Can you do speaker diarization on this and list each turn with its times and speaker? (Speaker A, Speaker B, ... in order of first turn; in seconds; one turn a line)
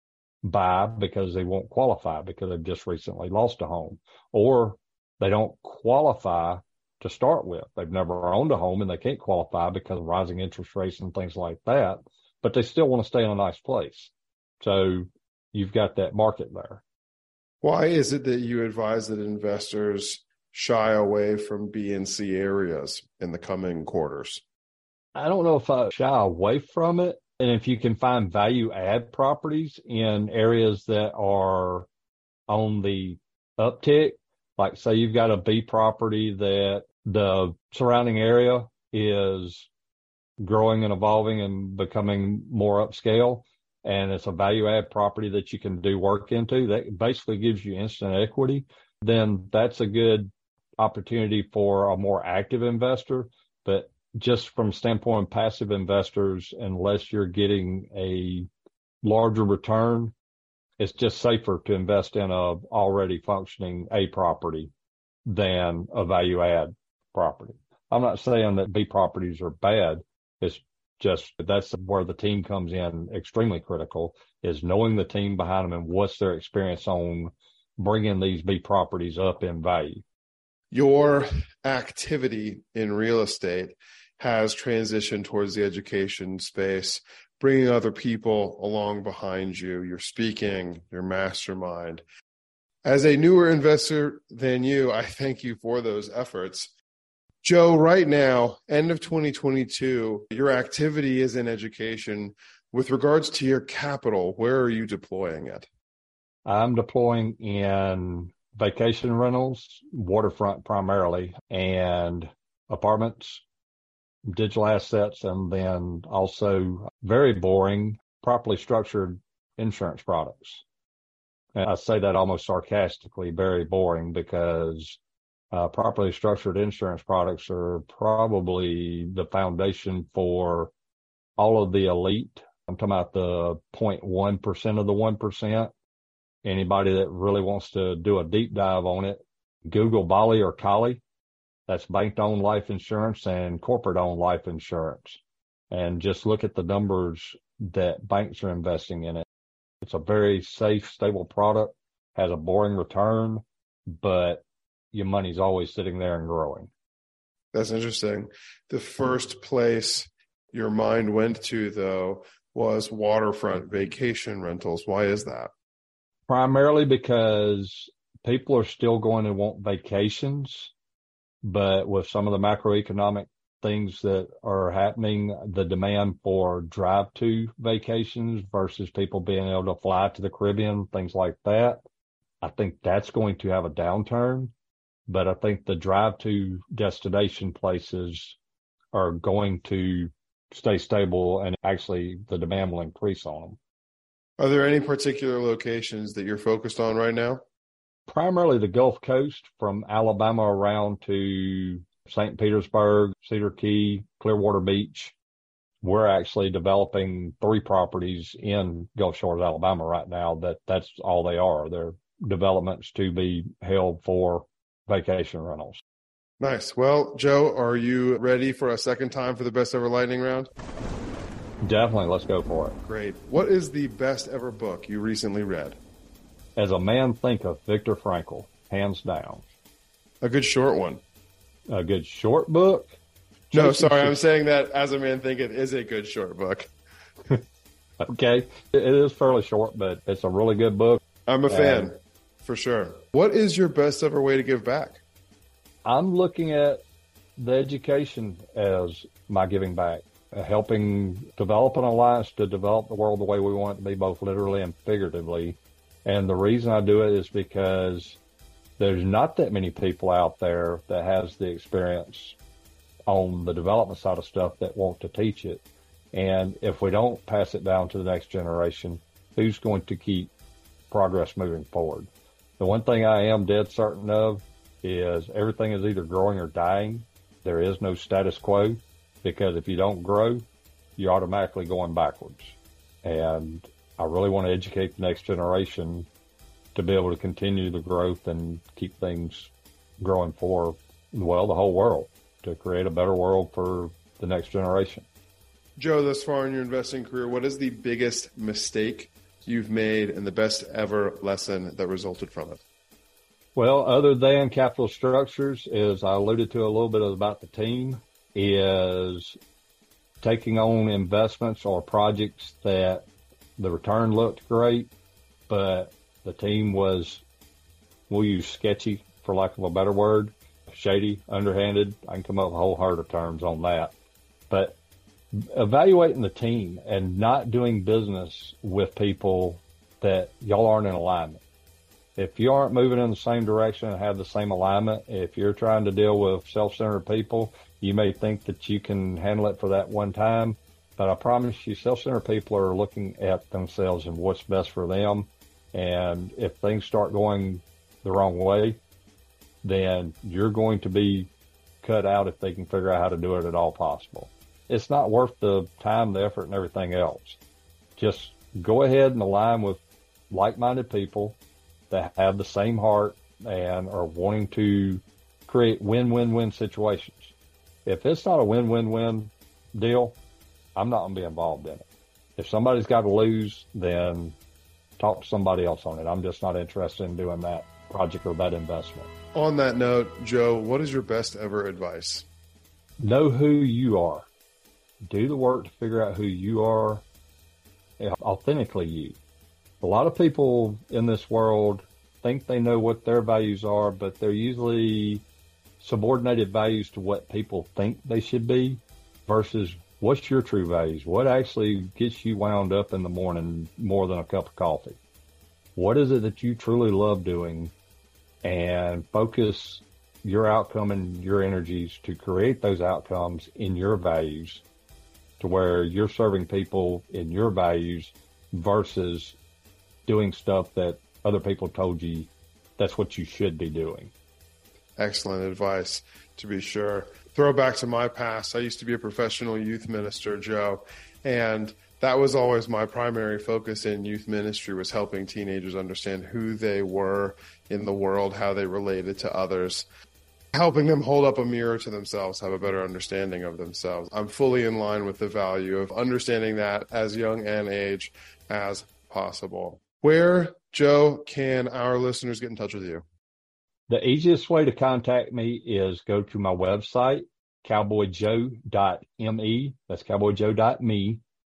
Speaker A: 0.4-16.8
Speaker B: 17.6-24.4
Speaker A: 25.1-31.9
Speaker A: 32.5-39.7
Speaker A: 40.4-58.5
Speaker A: 59.0-60.1
Speaker A: 60.8-64.7
Speaker A: 65.2-80.0
Speaker B: 80.7-92.0
Speaker B: 92.8-96.7
Speaker B: 97.4-105.7
Speaker A: 106.5-113.4
Speaker A: 114.3-120.6
Speaker A: 121.5-125.0
Speaker A: 125.5-130.7
Speaker A: 131.4-135.7
Speaker A: 136.4-141.0
Speaker A: 141.7-149.2
Speaker A: 149.8-153.4
Speaker A: 153.9-156.7
Speaker B: 157.5-165.5
Speaker A: 166.3-170.7
Speaker A: 171.4-181.8
Speaker A: 182.4-184.5
Speaker A: 185.1-188.4
Speaker A: 188.9-193.6
Speaker B: 194.4-197.4
Speaker A: 198.1-205.1
Speaker A: 205.8-215.8
Speaker B: 216.4-220.5
Speaker A: 221.6-222.8
Speaker B: 222.8-225.8
Speaker A: 226.6-229.4
Speaker B: 230.2-231.0
Speaker A: 231.7-232.9
Speaker A: 233.5-234.2
Speaker B: 233.5-236.7
Speaker A: 238.0-241.9
Speaker B: 241.2-245.0
Speaker A: 245.8-246.8
Speaker A: 247.4-258.2
Speaker A: 258.8-262.4
Speaker A: 263.1-265.6
Speaker A: 266.1-270.3
Speaker A: 270.9-280.4
Speaker A: 281.0-286.1
Speaker A: 286.7-295.1
Speaker B: 295.8-302.6
Speaker A: 303.5-309.4
Speaker A: 310.2-313.0
Speaker A: 313.6-314.9
Speaker A: 315.5-317.2
Speaker A: 318.1-323.9
Speaker A: 324.5-324.8
Speaker A: 325.3-331.4
Speaker A: 332.1-348.8
Speaker A: 349.6-351.3
Speaker A: 351.8-357.4
Speaker A: 358.0-361.4
Speaker A: 361.9-367.3
Speaker A: 367.8-370.2
Speaker A: 370.8-371.8
Speaker A: 372.4-374.4
Speaker A: 375.0-379.1
Speaker B: 379.3-382.2
Speaker A: 383.0-384.3
Speaker A: 385.1-387.0
Speaker A: 388.0-389.2
Speaker A: 389.8-395.2
Speaker A: 395.8-405.0
Speaker A: 405.8-407.7
Speaker A: 408.4-414.6
Speaker A: 415.4-419.4
Speaker A: 420.1-424.1
Speaker B: 425.0-439.8
Speaker B: 440.5-453.0
Speaker A: 453.9-461.2